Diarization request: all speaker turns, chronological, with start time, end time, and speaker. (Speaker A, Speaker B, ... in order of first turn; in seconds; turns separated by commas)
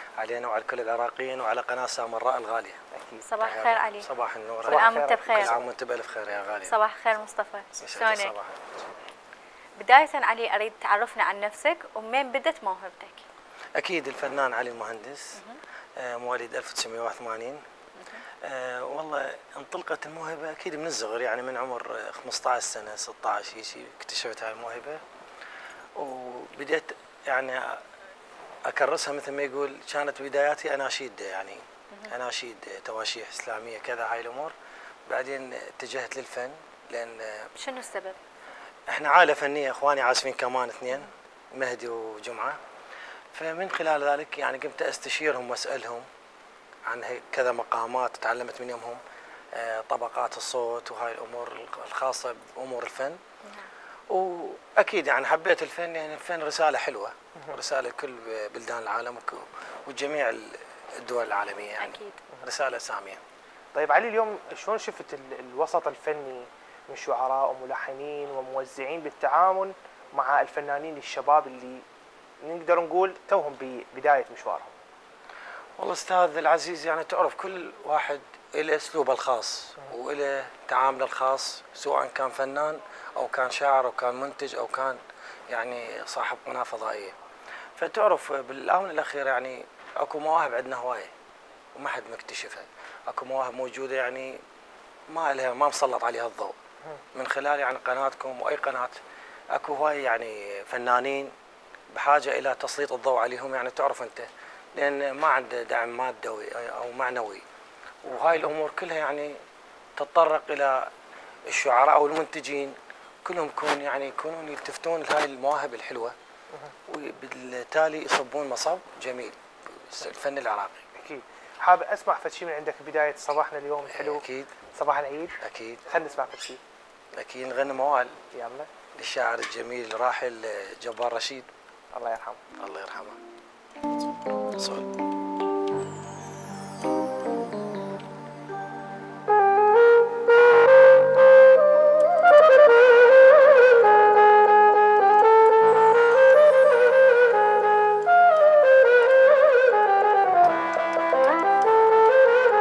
Speaker A: 0.2-2.8, Speaker B: 2.9-3.2, Speaker C: 3.2-4.1, Speaker A: 3.4-6.7, Speaker B: 4.7-5.7, Speaker C: 4.7-5.6, Speaker C: 6.7-8.3, Speaker A: 7.8-8.8, Speaker C: 9.8-13.2, Speaker A: 13.8-15.4, Speaker A: 16.0-17.6, Speaker A: 18.4-25.0, Speaker A: 26.0-27.8, Speaker A: 28.6-34.5, Speaker A: 35.1-37.5, Speaker C: 37.6-38.2, Speaker A: 38.9-42.6, Speaker A: 43.3-46.1, Speaker A: 46.9-49.0, Speaker A: 49.5-53.2, Speaker A: 54.1-63.2, Speaker C: 61.8-62.2, Speaker B: 63.8-71.8, Speaker B: 72.4-74.7, Speaker A: 75.8-87.2, Speaker A: 87.8-91.1, Speaker A: 91.8-94.4, Speaker A: 95.1-96.6, Speaker A: 97.1-99.0, Speaker A: 99.5-101.3, Speaker A: 101.9-107.4, Speaker A: 108.0-109.4, Speaker A: 110.0-110.9, Speaker A: 111.5-116.2, Speaker A: 116.9-120.8, Speaker B: 121.0-126.6, Speaker A: 123.9-124.5, Speaker A: 125.4-125.8, Speaker A: 127.2-128.2, Speaker B: 128.3-128.7, Speaker A: 128.9-131.5, Speaker B: 131.9-132.4, Speaker A: 132.6-133.2, Speaker A: 134.6-134.9